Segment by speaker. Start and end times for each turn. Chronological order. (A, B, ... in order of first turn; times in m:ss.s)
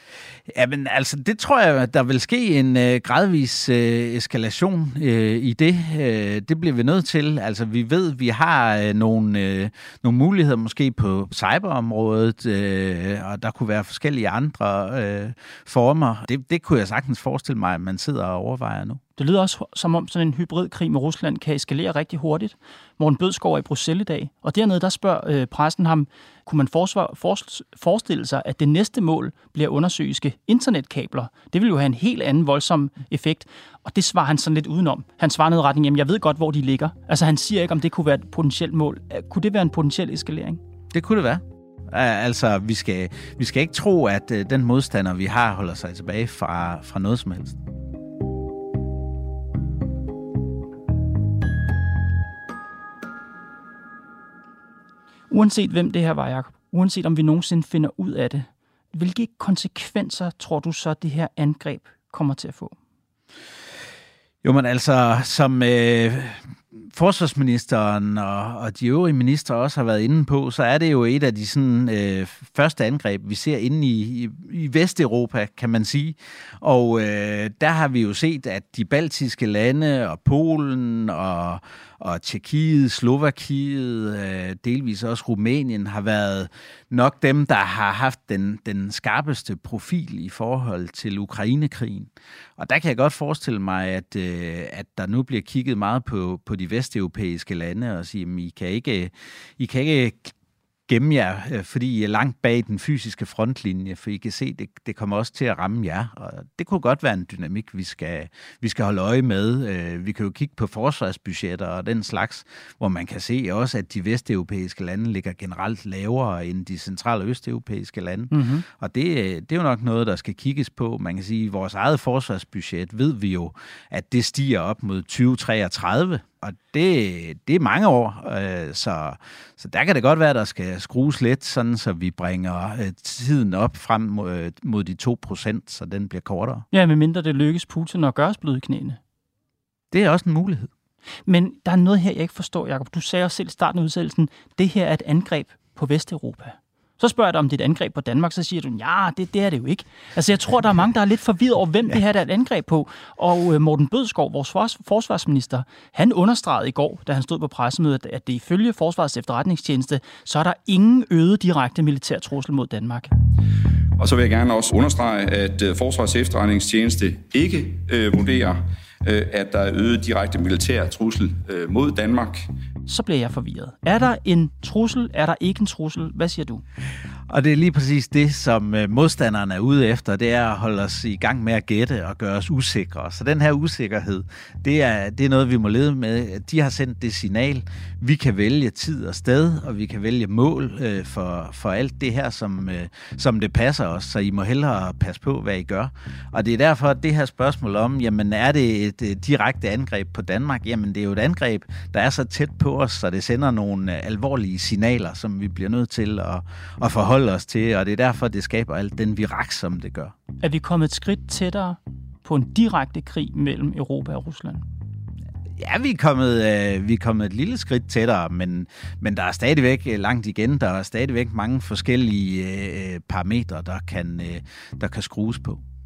0:00.5-0:19.0 A
0:19.2-0:40.6 B
0:40.9-0:47.6 A
0:55.3-1:02.8 B
1:04.4-1:40.3 A
1:40.9-2:16.6 A
1:58.3-1:58.6 B
2:16.7-2:19.0 B
2:19.9-2:20.7 A
2:21.3-2:43.1 B
2:44.0-2:52.5 C
2:52.9-2:56.6 B
2:57.3-3:30.1 A
3:30.4-3:34.6 B
3:35.6-3:45.6 A